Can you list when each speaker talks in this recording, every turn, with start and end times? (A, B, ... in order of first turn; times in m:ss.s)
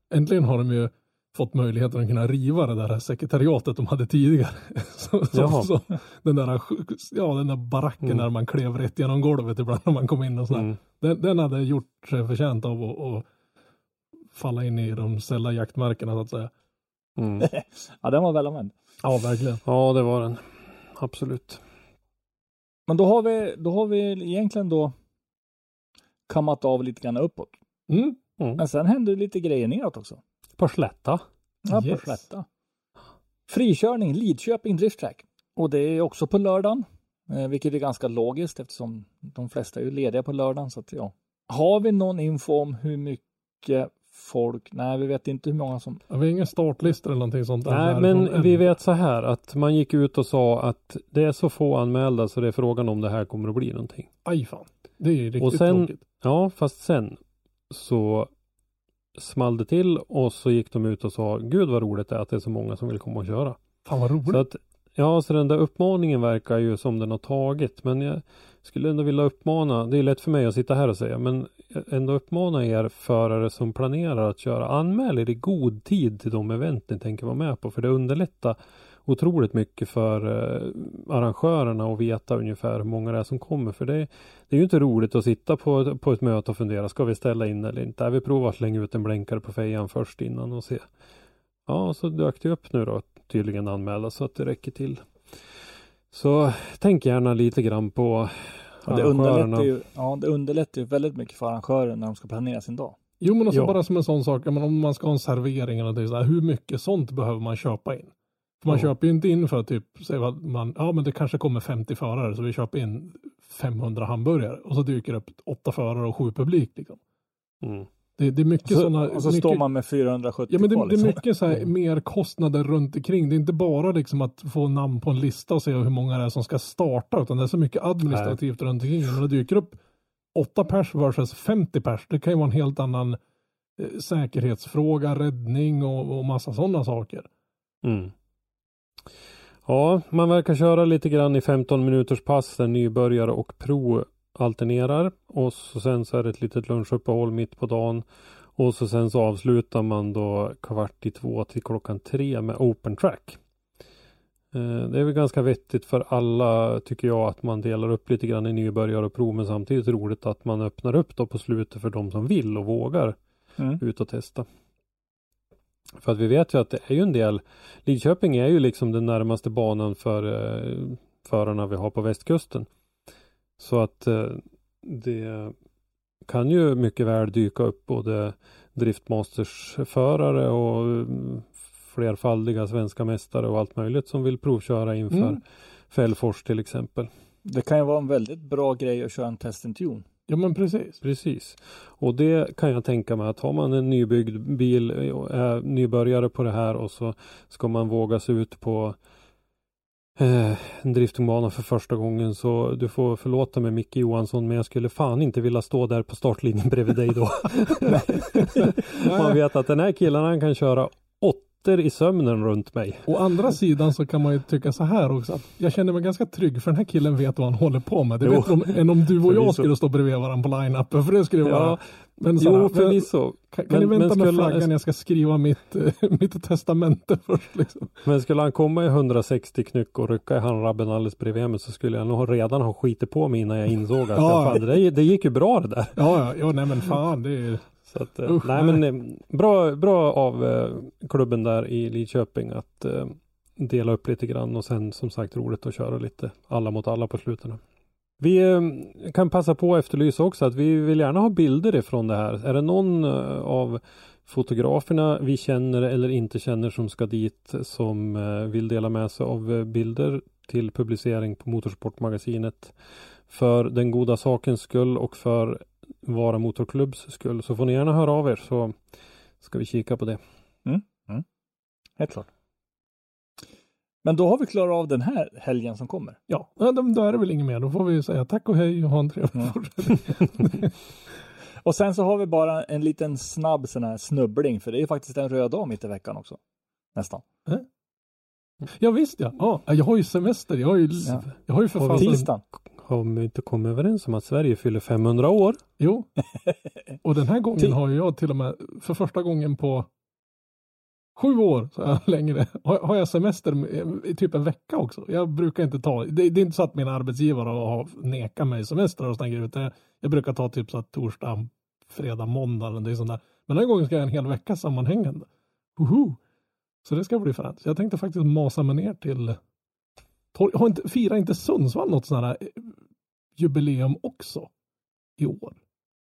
0:00.1-0:13.3 A
0:05.3-0:05.7 B
0:10.5-0:10.8 B
0:14.3-0:16.5 A
0:17.2-0:17.5 B
0:17.4-0:18.7 C
0:19.0-0:19.6 A
0:19.6-0:21.6 B
0:22.9-0:24.9 C
0:26.3-0:27.5 C
0:27.9-0:28.2 A
0:28.6-0:30.2 C
0:30.6-0:31.2 B
0:31.6-0:32.4 C
0:31.7-0:32.2 A
0:33.5-0:46.0 C
0:46.1-0:48.6 A
0:47.6-0:54.1 B
0:54.2-0:56.0 A
0:55.4-0:57.2 B
0:57.7-0:58.3 B
0:59.2-1:03.6 B
1:03.8-1:04.4 A
1:04.3-1:30.8 B
1:31.7-1:35.0 B
1:36.1-1:39.7 B
1:38.9-1:43.0 C
1:43.2-1:57.0 A
1:43.5-1:43.8 B
1:57.6-1:57.9 B
1:58.2-1:59.6 A
1:58.6-2:01.2 C
2:00.5-2:09.8 A
2:08.1-2:08.4 B
2:10.3-2:13.2 A
2:13.8-2:17.3 A
2:17.8-2:18.1 B
2:19.6-2:28.0 B
2:28.6-2:33.4 B
2:34.5-2:43.2 B
2:43.8-2:44.4 B
2:46.0-2:52.7 B
2:53.6-2:55.5 B
2:56.2-3:07.1 B
3:05.1-3:05.4 A
3:07.4-3:10.0 C
3:10.3-3:11.0 A
3:11.0-3:19.0 B
3:20.2-3:33.1 B
3:28.3-3:29.4 A
3:33.0-3:48.0 A
3:38.2-3:39.7 B
3:41.4-3:41.8 B
3:42.3-3:44.7 B
3:48.0-3:56.0 B
3:54.1-3:54.8 A
3:56.0-3:57.7 A
3:57.9-4:07.6 B
3:58.2-3:58.8 A
4:08.2-4:22.7 B
4:23.3-4:28.8 B
4:29.4-4:30.2 B
4:30.6-4:31.2 C
4:32.0-4:32.3 C
4:34.0-4:36.2 C
4:36.3-4:40.7 A
4:41.6-4:46.4 C
4:46.9-4:47.2 C
4:48.7-4:52.3 A
4:51.0-4:52.4 C
4:51.9-4:55.6 B
4:55.8-4:56.1 A
4:57.0-4:59.9 A
5:01.2-5:16.2 A
5:16.8-5:19.4 A
5:20.3-5:22.7 A
5:23.4-5:24.5 A
5:25.2-5:25.6 A